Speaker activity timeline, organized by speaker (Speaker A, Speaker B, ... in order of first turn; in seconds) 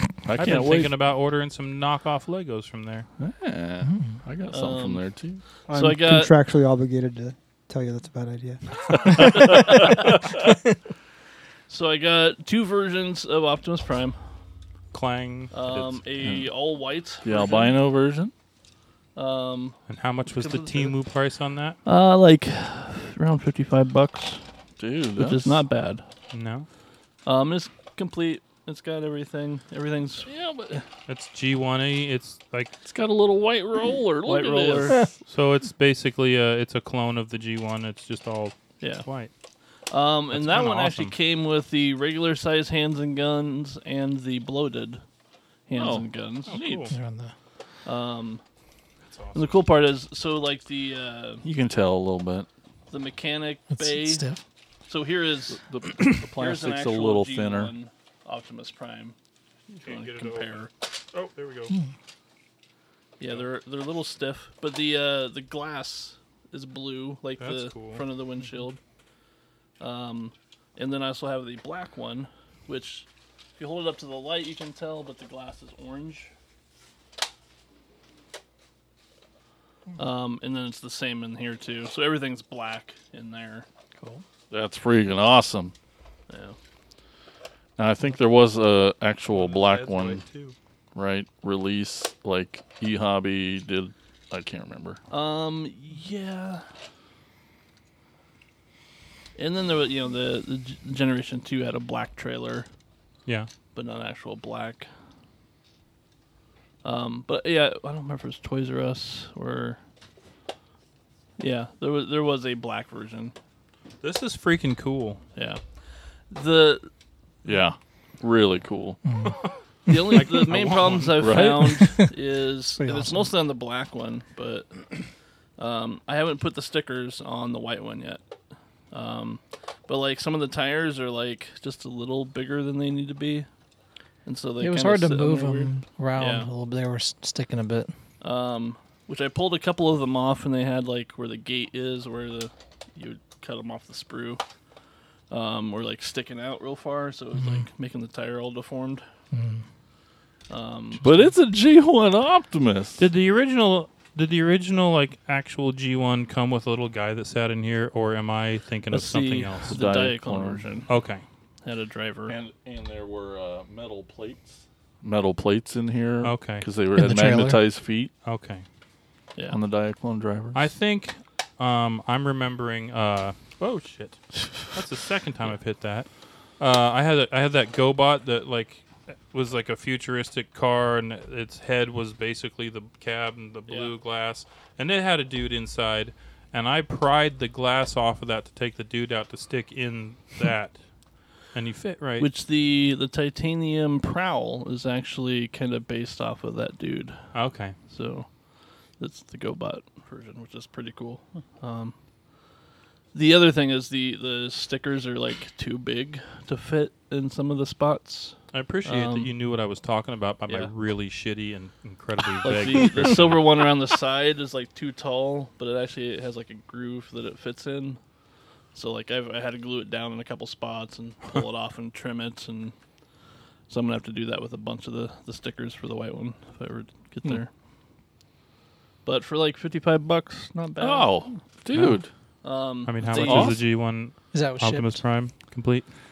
Speaker A: 0.2-0.9, 3.2-5.4, 8.9-10.2, 15.7-16.5, 17.2-18.3, 24.8-25.6, 30.3-30.9, 32.9-35.0, 45.7-46.9, 51.4-52.5, 55.6-57.7, 84.5-85.7, 87.8-90.2, 91.0-95.0, 117.5-119.0, 121.2-122.0, 151.0-153.1, 159.7-160.7, 162.3-168.1, 169.5-170.7, 230.8-232.1, 233.1-233.6
Speaker B: 0.4-3.1, 14.9-15.5, 19.9-21.8, 26.3-26.7, 31.1-32.7, 35.2-39.3, 40.3-41.2, 46.5-47.0, 49.0-49.6, 59.7-60.6, 61.1-61.7, 67.4-68.0, 89.3-90.6, 114.0-115.2, 119.9-121.4, 153.0-159.8, 160.9-161.2, 166.2-166.7, 168.2-168.7, 170.6-190.8, 191.4-192.3, 197.3-197.8, 208.5-213.4, 231.7-232.0, 232.8-235.9
Speaker C: 3.8-4.1, 46.9-47.3, 53.7-54.4, 84.0-84.2, 119.1-119.3, 122.8-123.3, 134.6-137.9, 147.4-147.7, 149.3-149.6, 151.0-151.3, 167.0-167.6, 234.3-235.0
Speaker D: 4.5-6.3, 9.4-10.0, 11.7-14.2, 15.5-17.8, 19.1-21.0, 21.9-24.4, 25.2-26.1, 27.3-30.3, 34.2-35.1, 38.8-39.1, 39.9-45.0, 45.7-46.6, 47.9-48.4, 49.4-51.5, 52.9-54.2, 54.9-55.6, 56.2-59.1, 59.8-60.7, 63.2-68.8, 69.8-76.3, 80.0-83.7, 86.3-86.6, 95.1-96.7, 99.4-102.7, 103.8-104.9, 106.8-109.8, 111.4-113.3, 115.4-115.6, 116.3-116.9, 119.9-128.2, 128.9-133.5, 134.2-136.5, 138.2-144.4, 145.3-149.0, 150.5-151.1, 158.9-160.9, 161.6-162.3, 183.7-183.9, 192.2-201.9, 203.1-209.3, 210.5-210.7, 212.4-218.0, 218.7-222.7, 223.7-227.5, 229.1-231.4, 232.4-233.7
Speaker E: 5.7-9.7